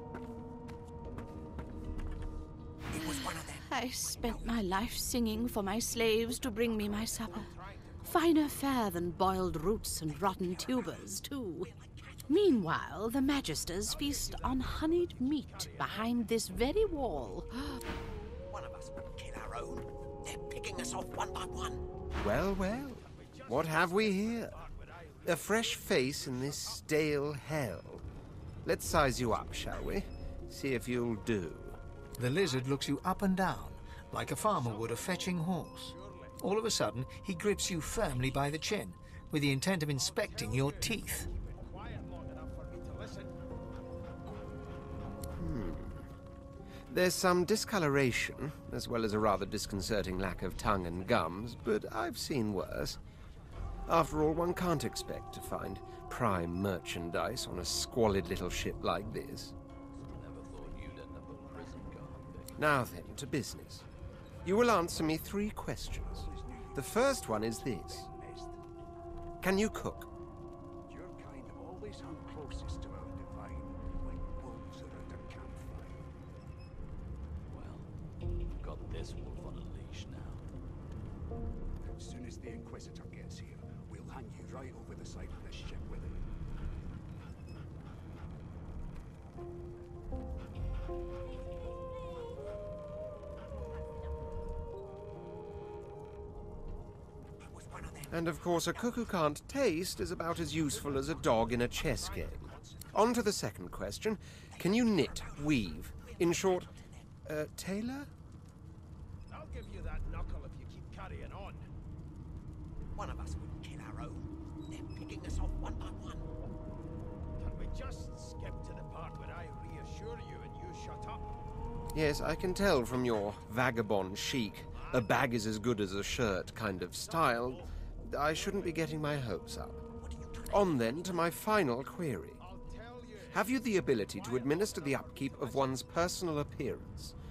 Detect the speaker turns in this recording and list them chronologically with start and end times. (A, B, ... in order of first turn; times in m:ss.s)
0:02.9-0:07.5 A
0:06.6-0:08.3 B
0:08.0-0:11.7 A
0:12.3-0:17.8 A
0:13.8-0:16.2 B
0:18.5-0:19.8 C
0:22.2-0:24.6 D
0:23.0-0:26.5 B
0:25.3-0:28.0 D
0:28.6-0:31.8 D
0:32.2-0:41.3 E
0:35.0-0:35.4 B
0:35.9-0:36.4 B
0:41.1-0:43.3 B
0:45.4-0:46.0 D
0:46.9-0:53.0 D
0:53.9-0:59.5 D
1:00.1-1:02.7 F
1:02.6-1:03.8 D
1:04.4-1:08.1 D
1:06.1-1:08.6 G
1:09.4-1:10.1 D
1:10.9-1:16.0 G
1:17.5-1:17.9 F
1:18.5-1:20.4 F
1:21.9-1:26.2 G
1:38.1-1:46.7 D
1:41.8-1:42.8 B
1:47.3-1:48.1 D
1:49.3-1:51.7 B
1:53.0-1:54.3 C
1:54.9-1:56.2 C
1:57.4-2:01.2 B
2:01.9-2:09.8 D
2:10.4-2:12.4 D
2:12.5-2:15.9 B
2:13.3-2:17.1 D